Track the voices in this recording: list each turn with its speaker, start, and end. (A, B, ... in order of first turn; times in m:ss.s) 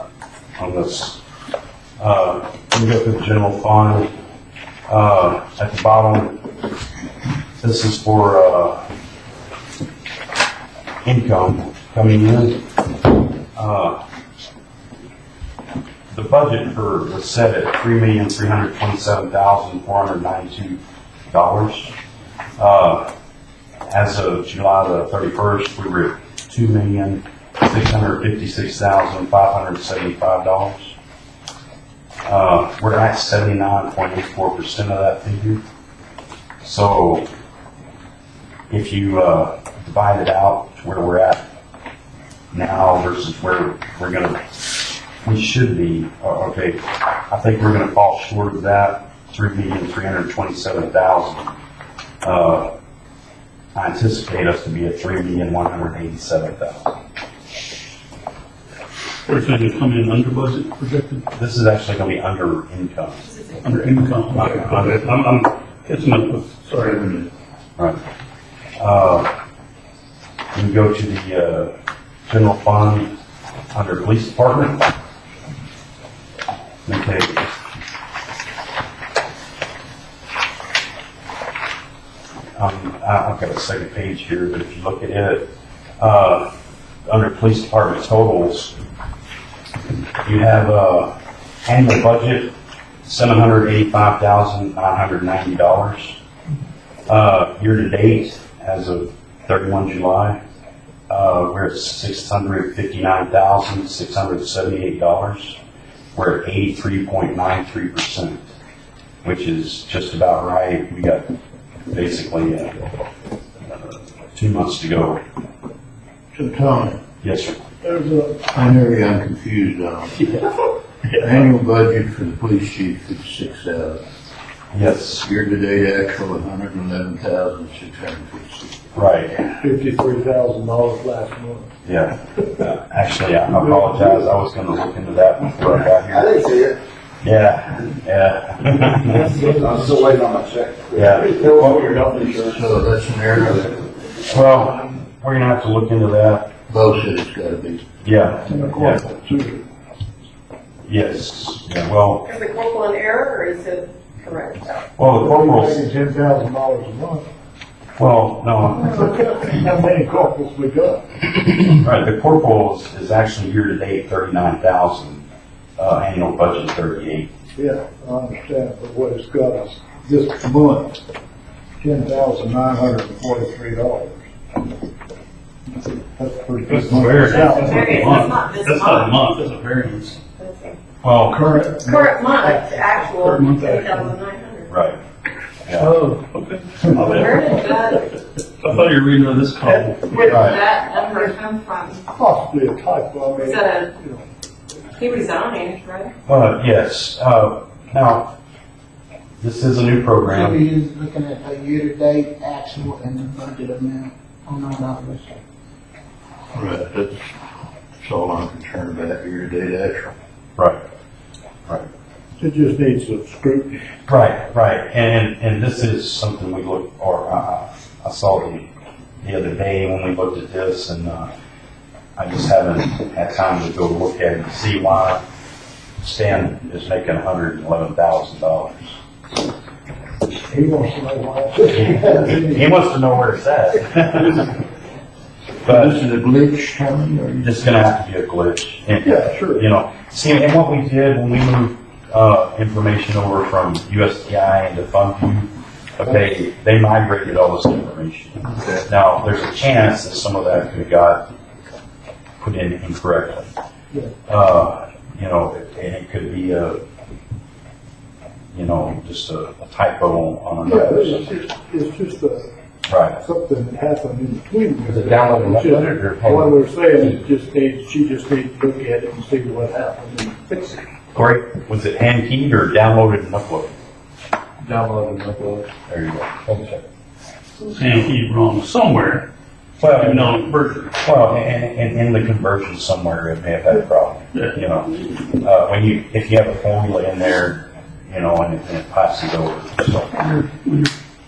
0:00.6-0:01.2 A
0:02.0-0:04.1 A
0:04.9-0:06.4 A
0:07.6-0:08.8 A
0:11.0-0:12.7 A
0:13.6-0:14.0 A
0:16.1-0:20.8 A
0:21.3-0:21.9 A
0:22.6-0:23.1 A
0:23.9-0:31.0 A
0:32.3-0:35.6 A
0:36.6-0:37.3 A
0:38.7-0:41.4 A
0:42.5-0:44.4 A
0:45.2-0:51.6 A
0:52.2-0:52.7 A
0:53.8-0:57.0 A
0:59.3-1:01.3 B
1:01.3-1:03.2 A
1:03.6-1:07.3 B
1:04.3-1:05.0 A
1:08.8-1:09.3 A
1:10.5-1:11.7 A
1:12.3-1:13.1 A
1:13.7-1:14.9 A
1:16.9-1:17.5 A
1:22.6-1:26.5 A
1:27.1-1:28.8 A
1:30.2-1:31.2 A
1:31.7-1:36.2 A
1:37.1-1:40.4 A
1:41.1-1:45.6 A
1:46.2-1:48.5 A
1:49.2-1:51.3 A
1:51.9-1:55.2 A
1:56.3-1:57.0 C
1:57.2-1:57.6 A
1:57.8-1:58.4 D
1:58.5-2:00.6 C
2:01.2-2:04.0 C
2:04.7-2:05.3 A
2:05.2-2:08.8 C
2:09.0-2:09.6 A
2:09.6-2:11.7 D
2:11.8-2:16.4 A
2:16.1-2:16.8 E
2:17.2-2:19.3 A
2:19.0-2:19.9 D
2:19.2-2:22.9 E
2:21.0-2:21.4 A
2:22.4-2:23.9 C
2:24.3-2:26.5 A
2:26.7-2:27.9 C
2:28.0-2:29.0 A
2:28.5-2:29.6 D
2:30.9-2:32.3 A
2:32.3-2:34.9 F
2:35.0-2:35.8 A
2:35.2-2:37.3 D
2:38.0-2:39.1 A
2:38.9-2:41.2 D
2:41.7-2:45.2 A
2:45.8-2:47.3 A
2:47.6-2:51.0 D
2:51.8-2:54.3 D
2:56.2-2:58.2 D
2:56.7-3:00.2 B
2:56.7-2:57.5 A
2:57.6-2:59.1 F
3:00.4-3:00.8 F
3:01.0-3:01.6 A
3:01.3-3:03.9 D
3:01.8-3:04.7 F
3:03.2-3:04.1 B
3:04.7-3:05.0 A
3:05.7-3:05.9 A
3:05.8-3:07.9 B
3:06.9-3:07.6 D
3:07.0-3:08.1 F
3:08.6-3:10.3 B
3:09.6-3:11.3 D
3:10.3-3:10.6 A
3:10.4-3:12.0 F
3:12.2-3:14.2 D
3:13.4-3:13.9 F
3:15.0-3:16.1 F
3:16.3-3:18.3 A
3:19.4-3:20.6 A
3:20.2-3:25.4 G
3:26.6-3:27.2 C
3:28.0-3:30.1 C
3:30.6-3:30.8 A
3:32.4-3:33.8 D
3:34.1-3:38.7 A
3:39.2-3:41.3 A
3:42.2-3:45.2 A
3:46.0-3:49.0 A
3:50.5-3:52.7 D
3:51.7-3:54.5 A
3:55.6-3:56.0 A
3:55.7-3:57.6 C
3:57.4-4:11.3 A
3:59.0-3:59.7 D
4:08.5-4:08.8 C
4:12.4-4:13.5 A
4:14.3-4:16.8 A
4:18.5-4:21.3 A
4:20.6-4:22.5 D
4:22.9-4:23.2 A
4:23.2-4:30.8 D
4:25.0-4:26.5 E
4:31.1-4:33.7 A
4:34.6-4:35.7 D
4:35.9-4:36.7 A
4:37.7-4:39.3 B
4:39.8-4:40.4 A
4:39.8-4:40.9 B
4:41.0-4:50.2 A
4:50.2-4:50.9 B